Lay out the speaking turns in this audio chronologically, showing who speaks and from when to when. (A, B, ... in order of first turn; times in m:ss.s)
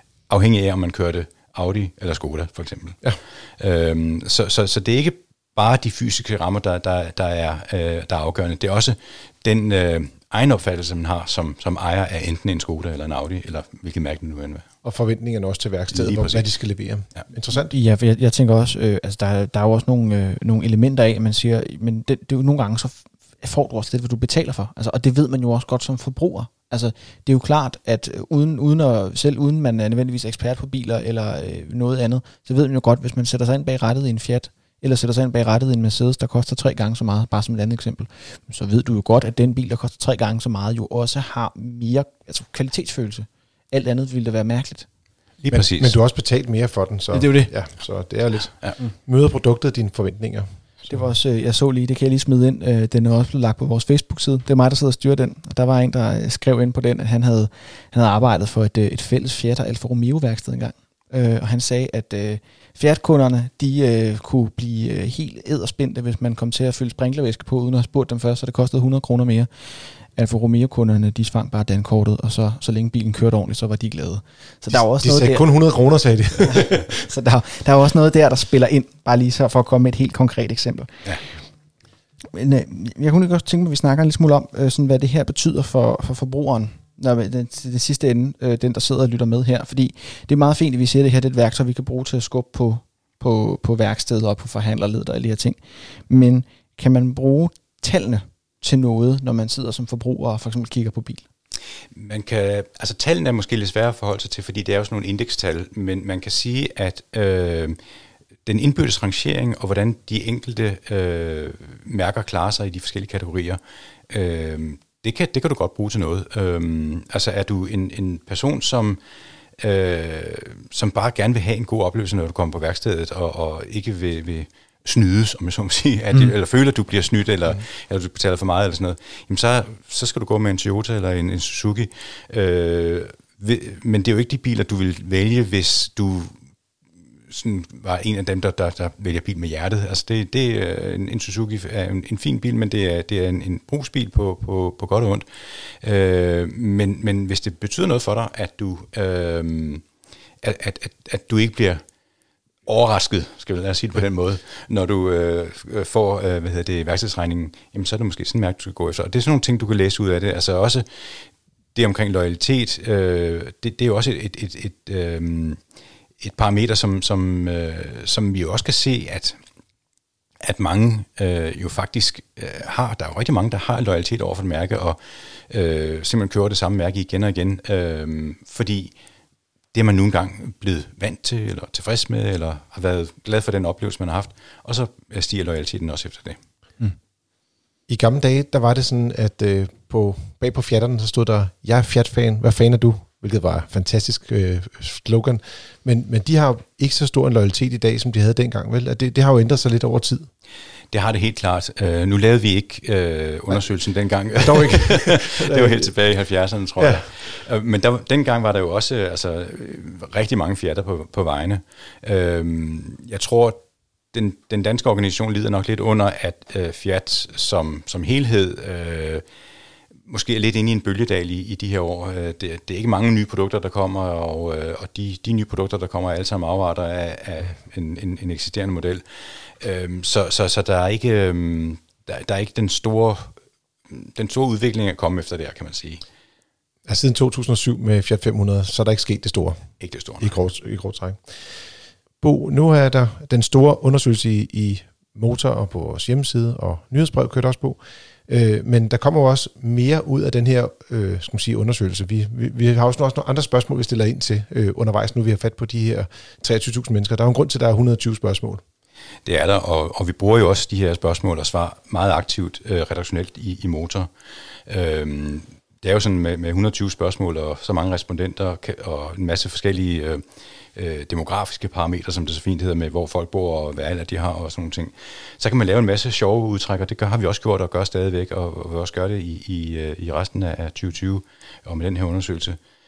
0:00.3-0:14.6 A
0:14.8-0:17.7 B
0:15.9-0:16.5 A
0:17.5-0:44.9 C
0:45.4-0:46.0 A
0:45.5-0:50.4 B
0:47.1-0:47.5 C
0:50.9-1:15.5 C
1:14.7-1:16.8 B
1:16.4-1:21.2 C
1:22.3-1:41.2 C
1:41.9-1:47.8 A
1:48.4-1:59.0 A
1:59.6-2:16.4 A
2:17.3-2:25.2 A
2:25.8-2:29.8 A
2:30.4-2:31.8 A
2:32.6-2:40.8 A
2:41.7-2:45.6 A
2:46.2-2:49.4 A
2:50.4-2:58.9 A
2:59.7-3:06.4 A
3:07.9-3:20.2 B
3:20.9-3:33.6 A
3:24.4-3:25.9 B
3:26.8-3:27.0 B
3:34.1-3:39.2 A
3:40.1-3:49.0 A
3:49.6-3:53.3 A
3:53.9-3:56.0 A
3:56.9-3:59.6 B
3:59.8-4:00.4 A
4:00.2-4:01.2 B
4:02.2-4:18.6 B
4:19.2-4:24.1 A
4:24.7-4:30.2 A
4:30.7-4:42.6 A